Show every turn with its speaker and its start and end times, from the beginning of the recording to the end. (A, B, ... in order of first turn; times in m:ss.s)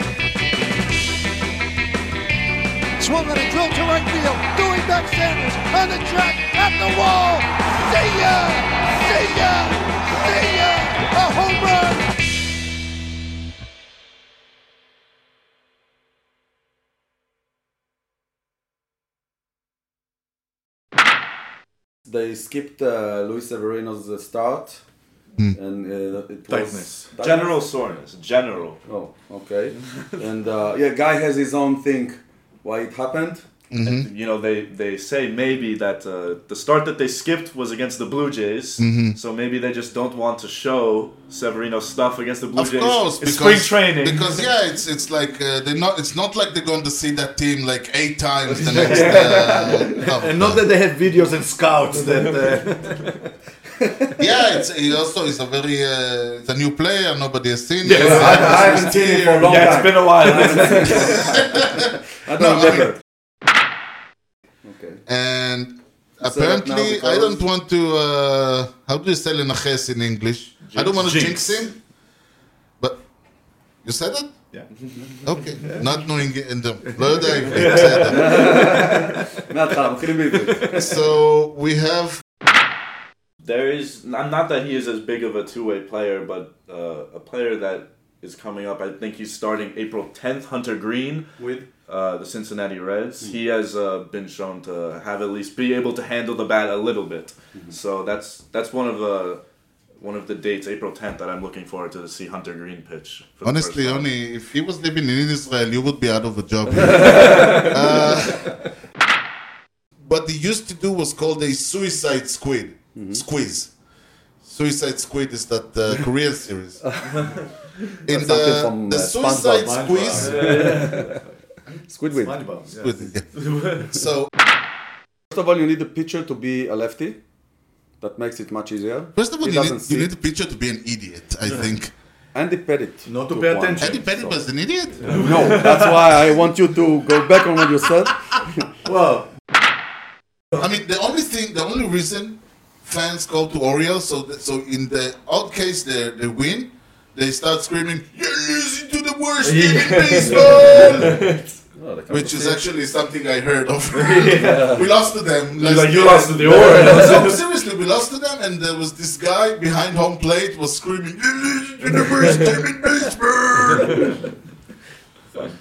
0:03.0-0:12.1 A
0:22.0-0:24.8 B
0:25.5-0:27.5 B
0:26.5-0:27.1 C
0:27.2-0:28.8 D
0:28.8-0:33.4 B
0:33.7-0:34.1 E
0:33.8-0:44.4 D
0:38.8-0:39.2 E
0:42.5-0:50.7 E
0:48.6-0:49.1 C
0:48.7-0:50.1 D
0:48.7-0:49.6 B
0:50.2-0:53.2 C
0:54.2-0:59.9 E
0:57.8-1:01.4 D
0:57.9-1:03.0 B
1:00.9-1:02.9 E
1:04.6-1:05.0 B
1:05.0-1:11.8 E
1:06.2-1:07.4 B
1:10.6-1:11.7 D
1:13.8-1:14.3 E
1:15.2-1:18.6 E
1:17.5-1:19.1 C
1:17.6-1:18.1 D
1:18.0-1:21.0 B
1:20.7-1:22.2 E
1:23.4-1:31.3 D
1:31.4-1:31.6 C
1:31.9-1:39.4 D
1:40.0-1:44.0 D
1:43.4-1:48.6 E
1:47.0-1:47.8 D
1:50.0-1:53.7 E
1:53.0-1:53.2 B
1:54.4-1:56.8 E
1:56.8-1:57.2 B
1:58.0-2:00.7 E
1:58.1-2:01.2 B
1:59.5-2:01.2 C
2:00.2-2:01.2 D
2:01.9-2:02.4 B
2:02.1-2:02.9 C
2:02.7-2:03.3 E
2:03.3-2:03.9 D
2:03.8-2:04.3 E
2:05.3-2:07.2 B
2:08.0-2:10.1 B
2:09.1-2:11.9 E
2:12.3-2:14.3 B
2:13.1-2:14.3 C
2:13.8-2:15.1 E
2:15.0-2:18.7 B
2:15.1-2:15.9 D
2:18.8-2:19.3 C
2:20.5-2:31.2 E
2:29.4-2:31.4 D
2:30.2-2:32.6 B
2:32.1-2:44.1 E
2:33.9-2:34.8 D
2:35.6-2:37.4 D